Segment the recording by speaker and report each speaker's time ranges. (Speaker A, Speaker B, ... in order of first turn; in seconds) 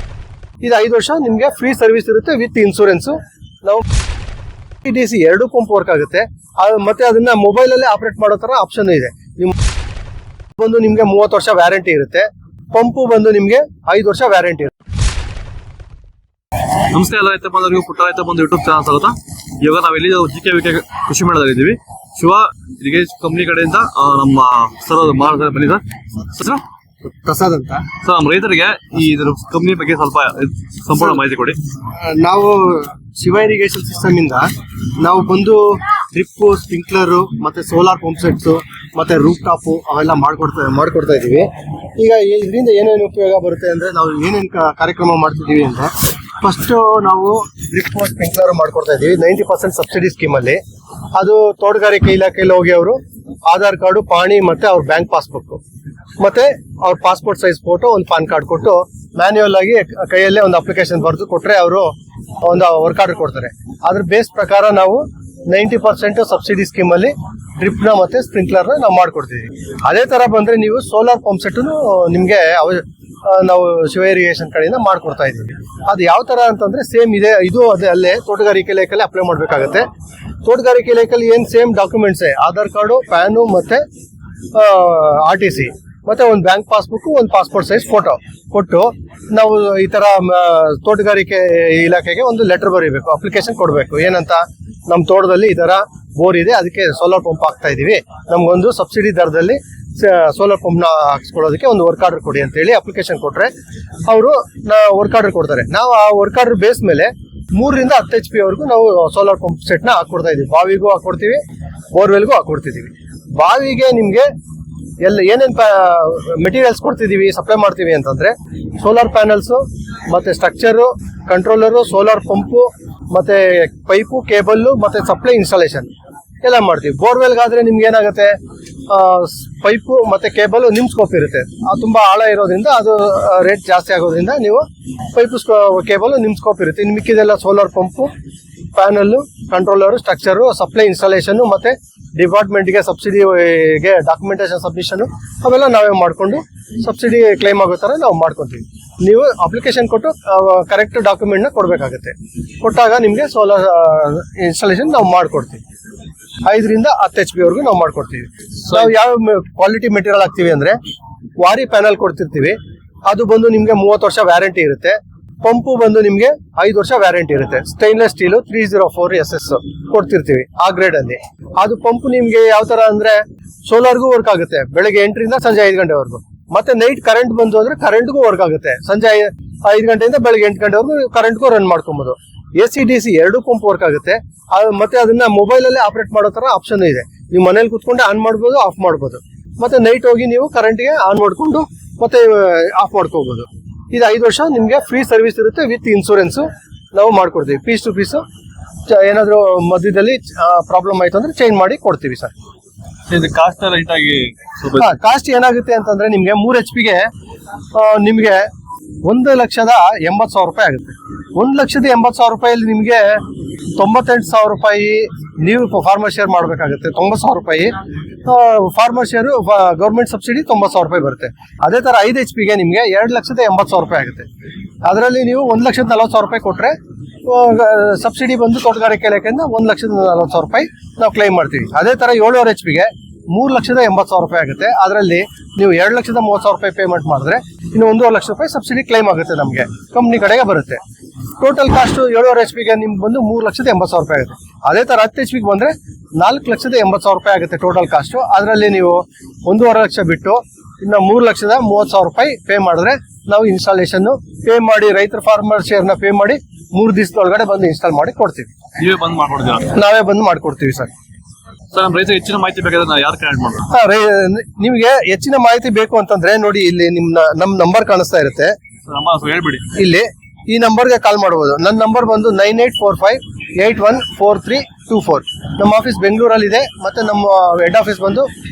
Speaker A: 0.6-3.9, 4.8-9.6, 10.6-14.7, 27.0-27.9, 31.9-50.6, 51.1-55.6, 56.2-79.9, 80.4-83.8, 84.5-103.5, 104.1-114.3, 115.0-125.9, 126.4-138.1, 138.8-155.6, 156.4-160.8, 161.4-198.2, 198.9-202.3, 204.8-207.1, 207.7-208.5, 209.1-213.2, 213.8-224.3, 224.8-240.8, 241.4-258.5, 259.7-260.9, 263.7-268.6, 269.7-278.3
Speaker B: 16.9-26.6, 28.0-31.6, 203.1-205.0, 258.8-259.7, 261.7-263.7, 268.9-269.7